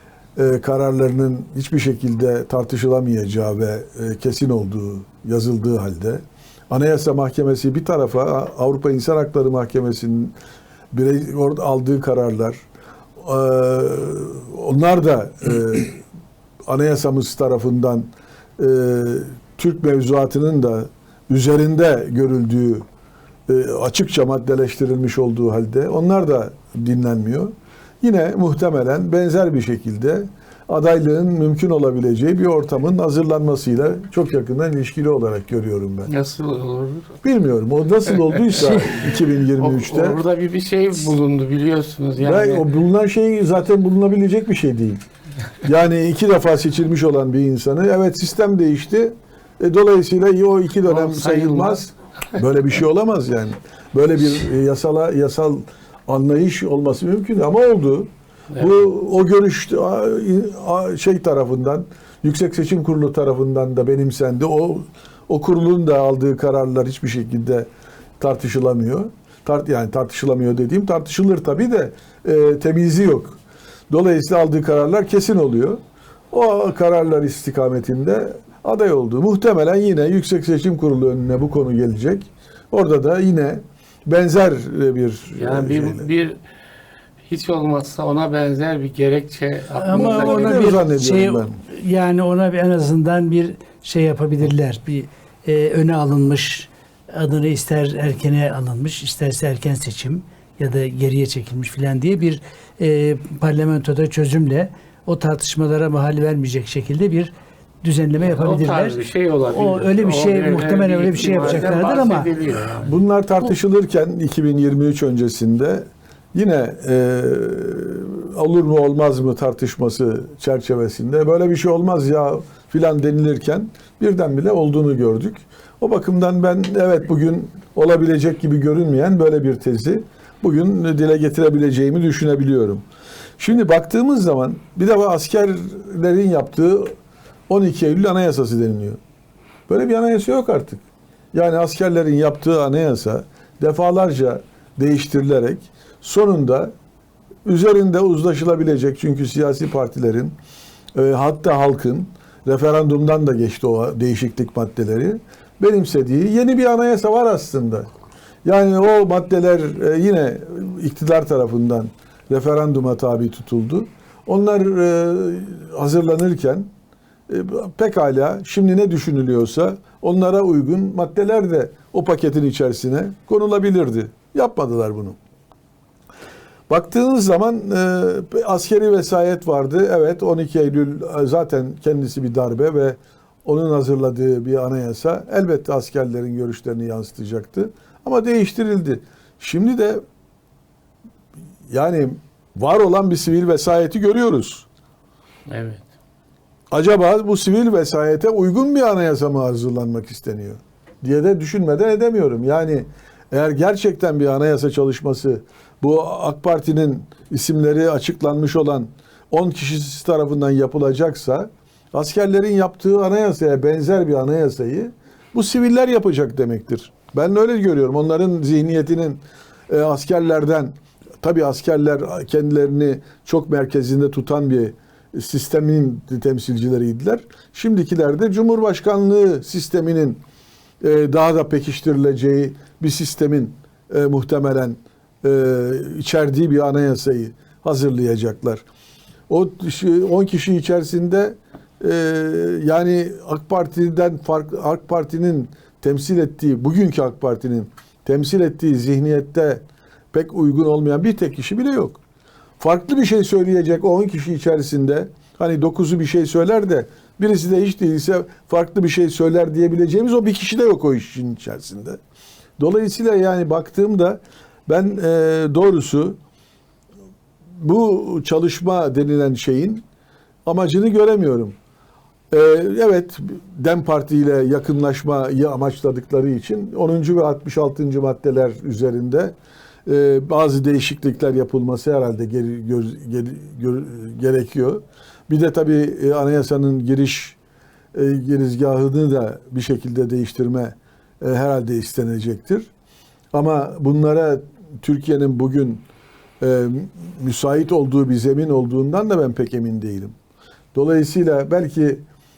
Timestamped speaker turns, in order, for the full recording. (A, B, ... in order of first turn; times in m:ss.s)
0:00.4-0:10.3 A
0:10.9-0:12.6 A
0:13.2-0:16.0 A
0:16.7-0:22.8 A
0:23.5-0:36.1 A
0:36.1-0:37.2 B
0:37.2-0:40.2 A
0:38.2-0:42.7 B
0:42.2-0:45.0 A
0:45.6-1:07.7 A
0:50.8-0:51.9 B
0:58.5-0:58.8 B
1:08.2-1:13.4 A
1:13.9-1:15.8 A
1:16.3-1:26.1 A
1:25.4-1:26.4 B
1:27.3-1:30.8 B
1:29.7-1:47.3 C
1:29.9-1:31.6 A
1:47.8-1:49.0 C
1:48.2-1:53.0 B
1:49.5-1:52.3 C
1:52.8-2:12.8 A
2:13.4-2:16.9 A
2:17.5-2:19.0 A
2:19.7-2:26.7 A
2:27.4-2:30.3 A
2:30.9-2:37.9 A
2:38.4-2:46.7 A
2:47.3-2:55.2 A
2:56.7-3:10.0 A
3:11.7-3:14.6 A
3:15.5-3:15.9 B
3:16.7-3:50.2 A
3:50.8-3:58.6 A
3:59.3-4:12.0 A
4:12.6-4:22.0 A
4:22.6-4:26.2 A
4:27.6-4:29.8 A
4:30.4-4:31.6 A
4:32.3-4:39.3 A
4:39.8-4:47.4 A
4:47.9-4:52.7 A
4:53.3-4:55.8 A
4:56.4-5:00.1 A
5:00.7-5:02.0 A